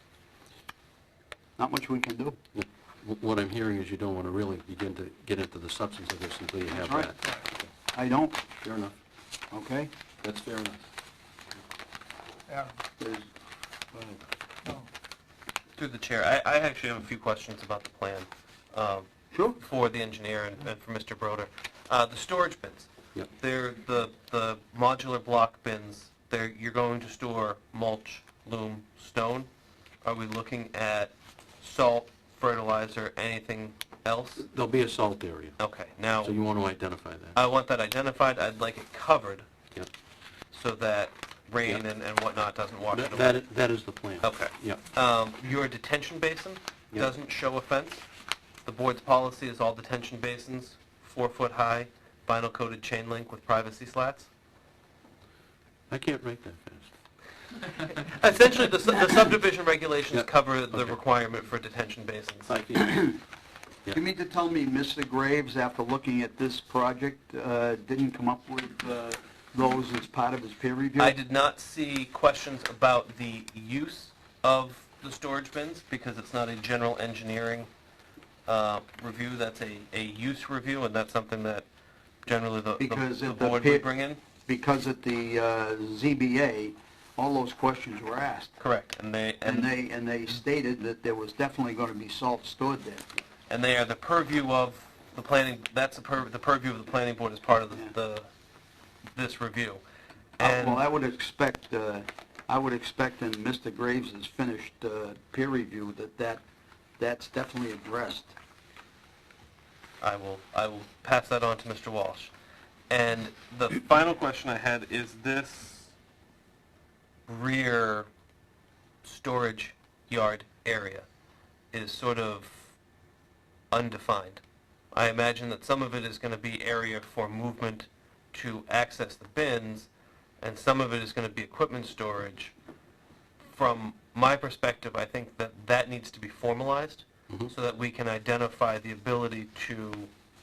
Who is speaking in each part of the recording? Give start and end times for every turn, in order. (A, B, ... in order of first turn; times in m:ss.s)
0:01.6-0:02.4 A
0:02.5-0:07.2 B
0:06.7-0:07.1 A
0:07.9-0:08.4 A
0:08.6-0:09.0 B
0:09.5-0:09.9 A
0:10.2-0:10.8 B
0:13.0-0:13.3 A
0:13.9-0:14.2 A
0:15.8-0:29.5 C
0:19.3-0:19.6 A
0:30.0-0:34.5 C
0:34.4-0:35.6 B
0:35.6-0:36.3 C
0:36.2-0:37.4 B
0:37.3-0:39.4 C
0:40.5-0:43.4 C
0:42.9-0:44.8 B
0:44.2-0:48.1 C
0:48.6-0:54.3 C
0:55.9-0:56.9 B
0:57.8-1:02.5 C
1:00.1-1:01.0 B
1:02.5-1:03.0 B
1:02.8-1:03.2 A
1:03.9-1:11.2 A
1:11.0-1:17.7 C
1:18.5-1:21.7 C
1:22.2-1:24.2 C
1:22.8-1:23.9 A
1:24.4-1:28.6 A
1:28.6-1:29.7 C
1:29.4-1:33.0 A
1:33.5-1:38.2 C
1:39.1-1:39.8 C
1:40.4-1:40.8 C
1:40.4-1:46.4 A
1:47.0-1:48.3 A
1:50.0-1:52.3 C
1:52.9-1:55.9 C
1:57.3-1:58.1 C
1:59.0-2:01.0 C
2:01.7-2:02.7 C
2:03.7-2:04.4 C
2:04.9-2:09.9 C
2:10.4-2:12.5 C
2:13.5-2:20.1 C